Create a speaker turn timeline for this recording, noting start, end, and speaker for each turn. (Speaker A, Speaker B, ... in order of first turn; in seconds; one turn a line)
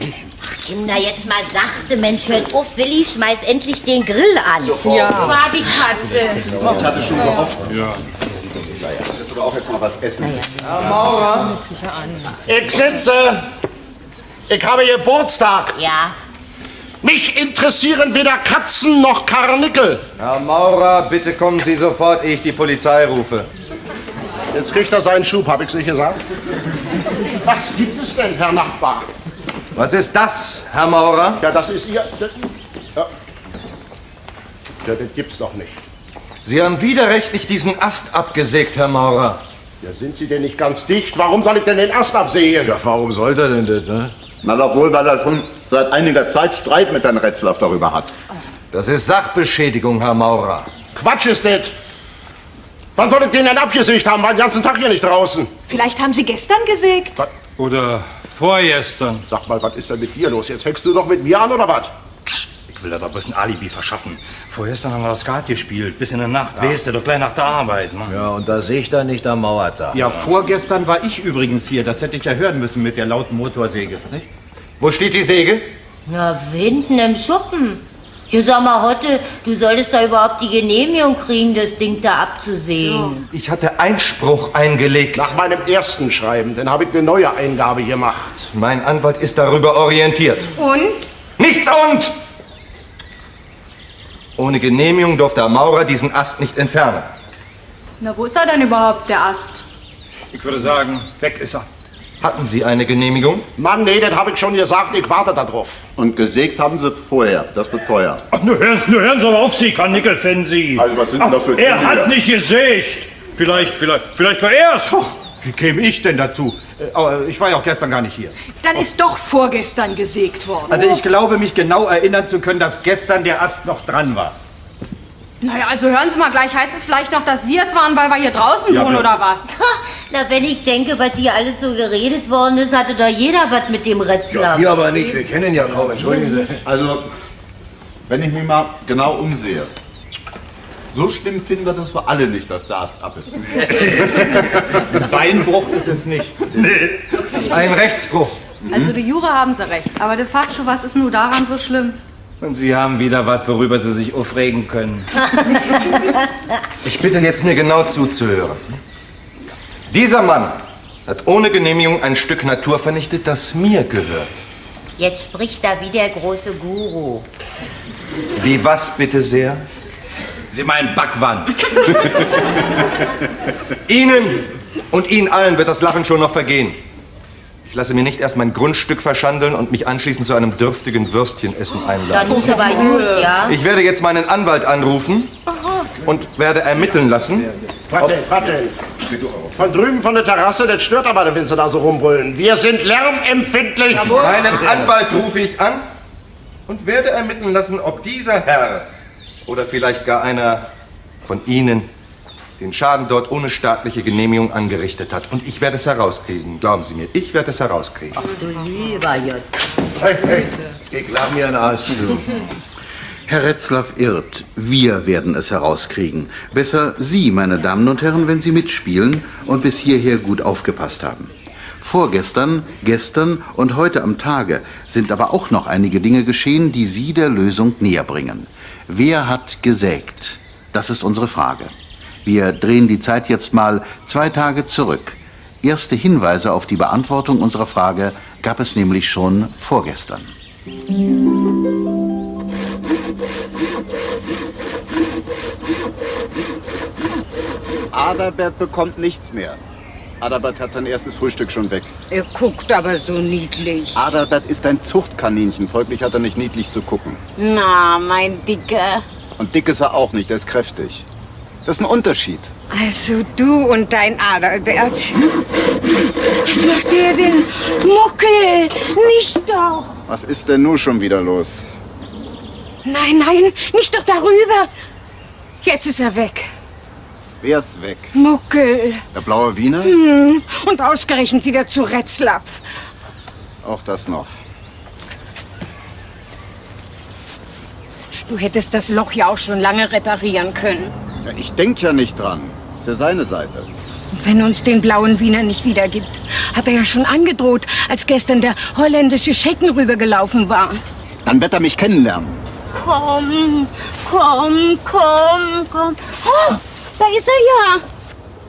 Speaker A: 0.5-4.9
Speaker B: 4.8-6.8
Speaker C: 5.0-5.2
Speaker D: 6.5-7.8
Speaker D: 8.4-10.5
Speaker E: 10.6-11.5
Speaker F: 12.4-13.4
Speaker F: 14.5-15.8
Speaker A: 15.8-16.1
Speaker F: 17.0-20.0
Speaker E: 20.2-23.5
Speaker F: 24.5-26.2
Speaker F: 27.4-29.1
Speaker E: 29.8-31.4
Speaker F: 31.4-33.1
Speaker F: 34.8-35.8
Speaker E: 36.4-39.4
Speaker F: 39.8-42.7
Speaker C: 42.6-44.1
Speaker D: 44.4-48.1
Speaker E: 48.7-50.7
Speaker F: 50.9-51.7
Speaker F: 53.0-55.5
Speaker G: 55.7-57.2
Speaker H: 57.6-59.2
Speaker F: 59.3-61.9
Speaker H: 62.7-68.1
Speaker C: 68.1-70.0
Speaker I: 69.9-74.3
Speaker E: 74.8-75.6
Speaker A: 76.1-83.2
Speaker E: 83.3-85.3
Speaker F: 85.1-88.5
Speaker E: 88.5-90.5
Speaker E: 91.4-92.1
Speaker E: 94.4-97.1
Speaker B: 98.0-99.6
Speaker H: 100.3-101.7
Speaker E: 102.2-103.4
Speaker F: 103.6-105.8
Speaker D: 106.0-108.2
Speaker H: 108.3-115.2
Speaker D: 110.8-112.1
Speaker I: 115.4-118.3
Speaker G: 118.6-121.0
Speaker I: 120.7-124.3
Speaker B: 125.4-129.5
Speaker I: 128.7-129.1
Speaker A: 129.5-134.7
Speaker C: 134.3-136.6
Speaker D: 136.6-137.0
Speaker D: 138.1-139.7
Speaker D: 140.9-144.4
Speaker I: 143.8-144.1
Speaker I: 144.9-146.6
Speaker E: 147.4-148.4
Speaker B: 148.7-152.0
Speaker H: 152.4-155.1
Speaker A: 155.3-156.0
Speaker E: 156.8-158.6
Speaker E: 159.9-164.4
Speaker A: 165.0-167.2
Speaker E: 168.3-169.6
Speaker H: 170.5-171.9
Speaker E: 173.9-176.8
Speaker E: 177.7-185.3
Speaker A: 182.1-183.5
Speaker B: 182.3-183.3
Speaker E: 186.0-187.5
Speaker F: 187.9-188.7
Speaker D: 189.0-189.5
Speaker F: 189.6-194.5
Speaker E: 194.1-195.8
Speaker E: 196.7-198.8
Speaker E: 199.5-200.6
Speaker E: 201.2-201.9
Speaker E: 202.6-208.2
Speaker A: 208.2-209.5
Speaker C: 210.9-212.2
Speaker J: 213.3-231.7
Speaker J: 232.2-240.3
Speaker D: 247.9-249.6
Speaker D: 250.2-251.9
Speaker K: 252.1-254.0
Speaker D: 253.9-257.2
Speaker K: 257.4-259.0
Speaker D: 259.4-261.0
Speaker D: 261.6-262.5
Speaker K: 262.7-265.3
Speaker K: 266.4-269.9
Speaker D: 270.1-271.6
Speaker K: 272.8-274.7
Speaker K: 275.6-276.5
Speaker D: 277.4-278.1
Speaker K: 278.1-279.0
Speaker D: 279.1-279.9
Speaker K: 279.8-282.6
Speaker D: 283.6-284.3
Speaker K: 288.1-290.9
Speaker D: 291.2-293.6
Speaker K: 294.1-300.8
Speaker D: 301.2-302.4
Speaker K: 302.7-307.8